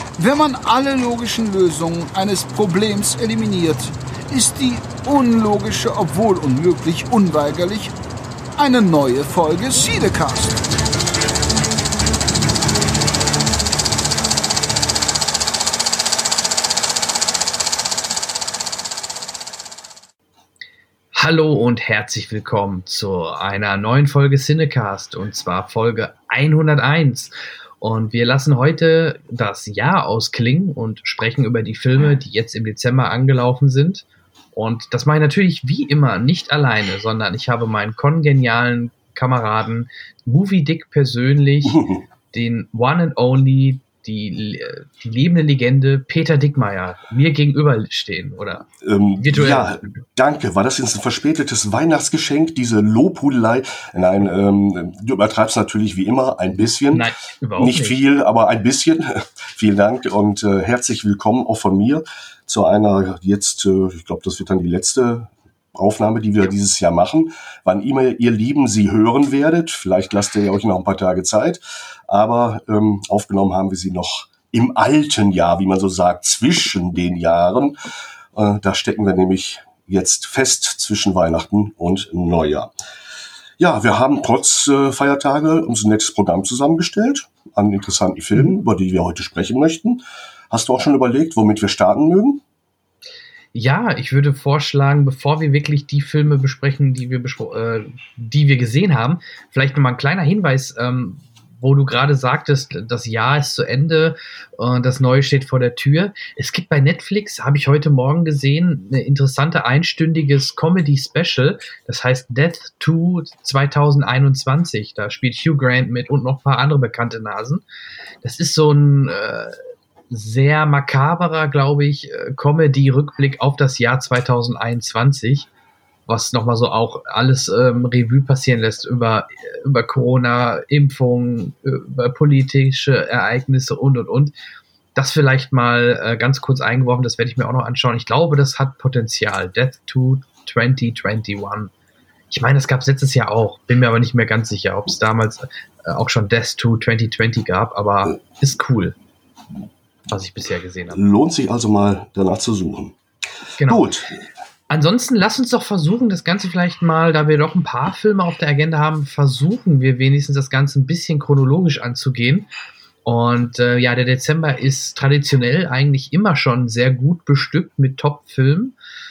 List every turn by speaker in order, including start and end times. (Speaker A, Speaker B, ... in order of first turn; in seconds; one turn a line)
Speaker A: 0.2-7.9
Speaker A: 8.6-10.6
Speaker B: 21.1-41.8
Speaker C: 41.6-42.0
Speaker B: 42.3-48.6
Speaker C: 48.8-77.8
Speaker B: 49.2-49.9
Speaker B: 56.9-58.0
Speaker C: 78.3-82.7
Speaker C: 83.6-92.4
Speaker B: 93.5-117.6
Speaker B: 118.2-119.6
Speaker B: 120.1-125.5
Speaker B: 126.1-134.3
Speaker B: 134.9-141.7
Speaker B: 142.3-148.9
Speaker B: 150.1-151.0
Speaker C: 150.9-153.0
Speaker B: 153.6-153.9
Speaker C: 153.7-154.2
Speaker B: 154.7-162.5
Speaker B: 163.1-168.8